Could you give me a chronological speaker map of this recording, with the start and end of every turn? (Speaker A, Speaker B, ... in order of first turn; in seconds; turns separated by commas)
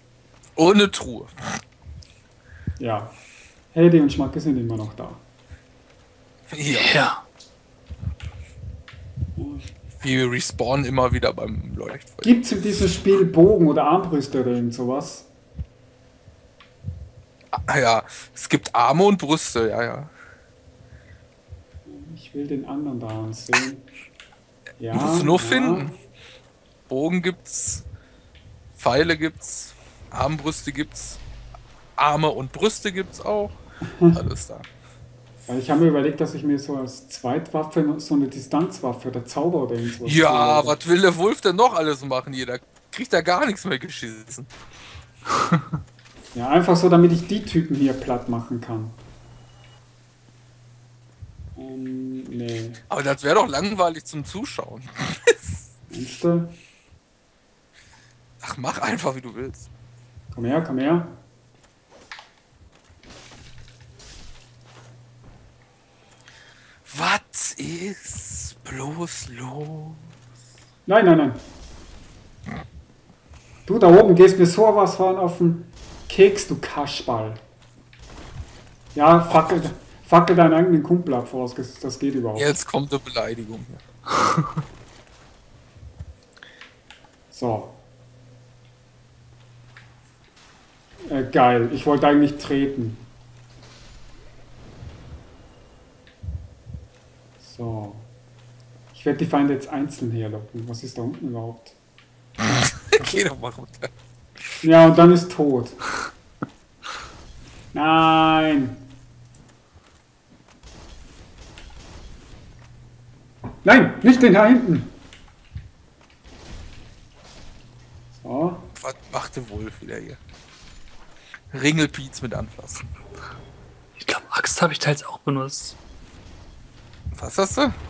Speaker A: 0.6-1.6, Speaker B: 2.8-3.1, Speaker B: 3.7-5.2, Speaker A: 6.5-7.0, Speaker C: 6.7-7.2, Speaker B: 9.3-9.7, Speaker A: 10.0-12.3, Speaker B: 12.2-15.3, Speaker A: 17.5-20.1, Speaker B: 21.9-23.9, Speaker B: 24.8-25.9, Speaker A: 24.9-25.9, Speaker A: 26.9-27.9, Speaker A: 28.8-31.2, Speaker A: 32.0-33.5, Speaker B: 33.8-34.2, Speaker A: 34.1-34.7, Speaker B: 35.5-40.8, Speaker A: 40.0-44.5, Speaker C: 45.3-45.6, Speaker B: 46.3-49.0, Speaker B: 51.5-52.8, Speaker A: 52.9-55.7, Speaker B: 55.9-56.5, Speaker A: 58.4-59.7, Speaker B: 60.3-61.2, Speaker A: 66.8-70.1, Speaker B: 70.9-71.4, Speaker B: 73.7-77.4, Speaker B: 78.9-82.6, Speaker A: 79.3-79.6, Speaker A: 82.3-83.8, Speaker C: 84.1-84.5, Speaker B: 87.3-87.8, Speaker B: 91.0-93.1, Speaker B: 97.4-98.1, Speaker B: 98.9-101.8, Speaker A: 102.4-103.9, Speaker B: 104.6-105.8, Speaker B: 107.7-108.8, Speaker B: 113.6-114.9, Speaker B: 118.1-118.7, Speaker A: 118.8-120.2, Speaker A: 121.5-122.9, Speaker C: 124.0-125.8, Speaker A: 127.1-127.8